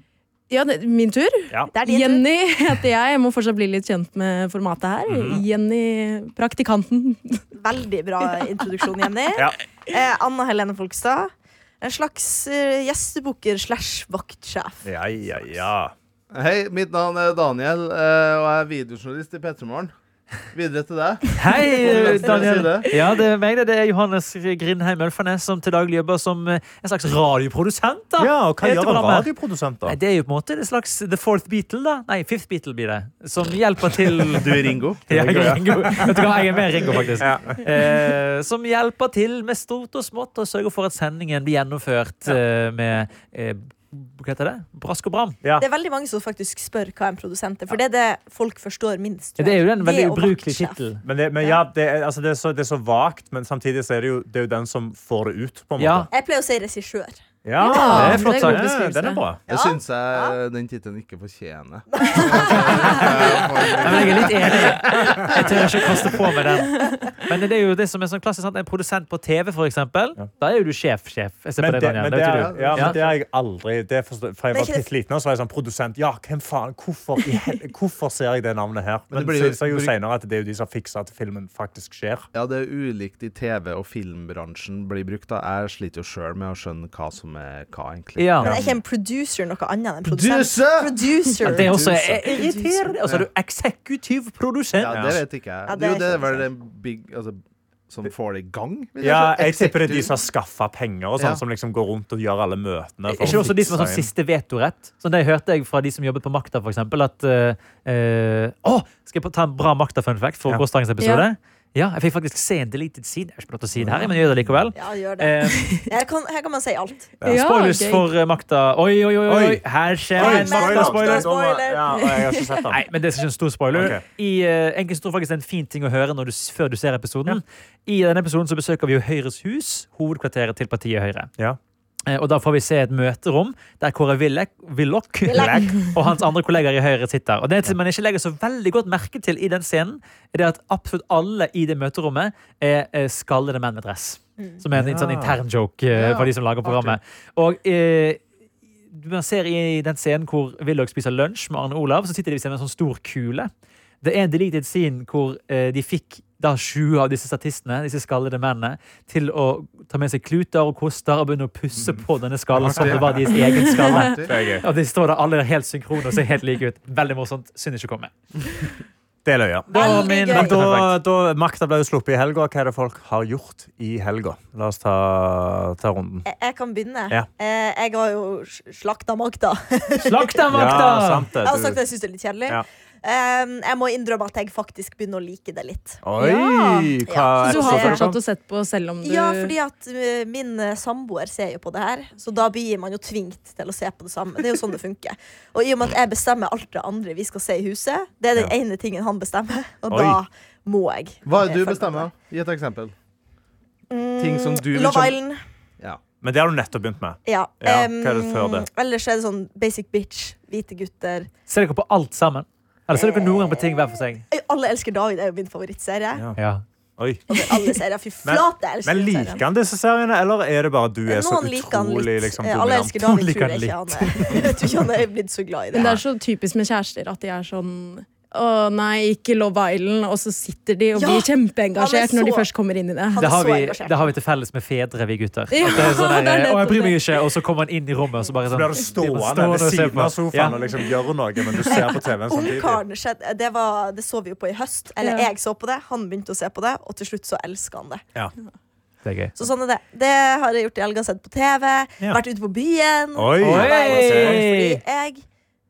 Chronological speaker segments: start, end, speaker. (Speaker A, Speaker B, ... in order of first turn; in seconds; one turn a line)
Speaker A: 0.5-7.4
Speaker B: 1.7-2.2
Speaker C: 5.1-5.4
Speaker B: 7.5-14.8
Speaker C: 14.8-15.9
Speaker D: 16.3-19.9
Speaker D: 20.5-23.0
Speaker E: 21.4-29.3
Speaker C: 28.2-30.0
Speaker E: 29.9-45.4
Speaker D: 34.3-35.1
Speaker C: 35.1-36.4
Speaker C: 37.2-37.6
Speaker B: 45.6-50.8
Speaker E: 49.4-51.0
Speaker C: 51.0-56.1
Speaker E: 55.8-56.1
Speaker B: 56.1-57.1
Speaker C: 57.5-59.4
Speaker A: 57.6-59.2
Speaker E: 57.9-58.7
Speaker D: 59.5-65.8
Speaker B: 59.5-60.4
Speaker B: 61.9-63.4
Speaker E: 62.8-63.0
Speaker C: 63.3-63.6
Speaker E: 63.8-73.0
Speaker C: 71.6-82.3
Speaker D: 72.3-73.0
Speaker B: 74.5-74.8
Speaker D: 79.1-79.9
Speaker D: 82.3-88.6
Speaker E: 88.2-88.6
Speaker C: 88.4-88.7
Speaker B: 88.4-92.9
Speaker D: 90.1-91.0
Speaker E: 91.5-95.0
Speaker D: 91.5-92.2
Speaker D: 94.8-100.1
Speaker C: 94.9-95.2
Speaker B: 95.7-96.4
Speaker C: 99.0-104.1
Speaker E: 103.1-115.7
Speaker A: 111.0-111.3
Speaker C: 113.8-114.1
Speaker B: 114.7-117.1
Speaker E: 117.2-121.3
Speaker A: 117.3-118.1
Speaker C: 119.3-119.6
Speaker B: 120.2-122.1
Speaker C: 120.2-122.8
Speaker A: 121.9-122.5
Speaker E: 122.7-131.3
Speaker C: 123.7-124.0
Speaker E: 132.1-148.2
Speaker B: 135.2-135.9
Speaker C: 135.3-135.8
Speaker C: 144.7-145.3
Speaker E: 148.9-153.5
Speaker E: 154.0-168.1
Speaker D: 162.6-164.3
Speaker C: 162.6-163.2
Speaker C: 164.2-164.7
Speaker C: 169.2-176.3
Speaker E: 169.7-170.9
Speaker B: 169.7-170.5
Speaker B: 176.3-180.8
Speaker E: 180.0-181.3
Speaker C: 180.5-181.8
Speaker B: 181.4-186.0
Speaker C: 186.0-188.2
Speaker A: 186.2-186.9
Speaker B: 187.1-188.0
Speaker A: 187.4-189.5
Speaker B: 189.0-202.1
Speaker C: 199.9-200.2
Speaker D: 201.2-202.9
Speaker B: 203.9-205.4
Speaker D: 204.2-205.2
Speaker C: 206.2-208.7
Speaker B: 207.3-211.3
Speaker E: 211.5-214.3
Speaker B: 212.9-216.2
Speaker E: 216.4-216.6
Speaker C: 217.0-217.4
Speaker B: 217.3-219.4
Speaker C: 218.2-224.5
Speaker B: 221.1-225.9
Speaker A: 225.7-233.3
Speaker C: 225.7-226.0
Speaker B: 231.0-232.5
Speaker B: 233.1-234.1
Speaker E: 233.2-240.6
Speaker A: 235.5-237.0
Speaker C: 238.5-242.8
Speaker B: 241.7-248.0
Speaker A: 245.0-245.3
Speaker E: 249.1-249.4
Speaker B: 249.4-255.2
Speaker C: 253.2-254.4
Speaker E: 253.4-254.8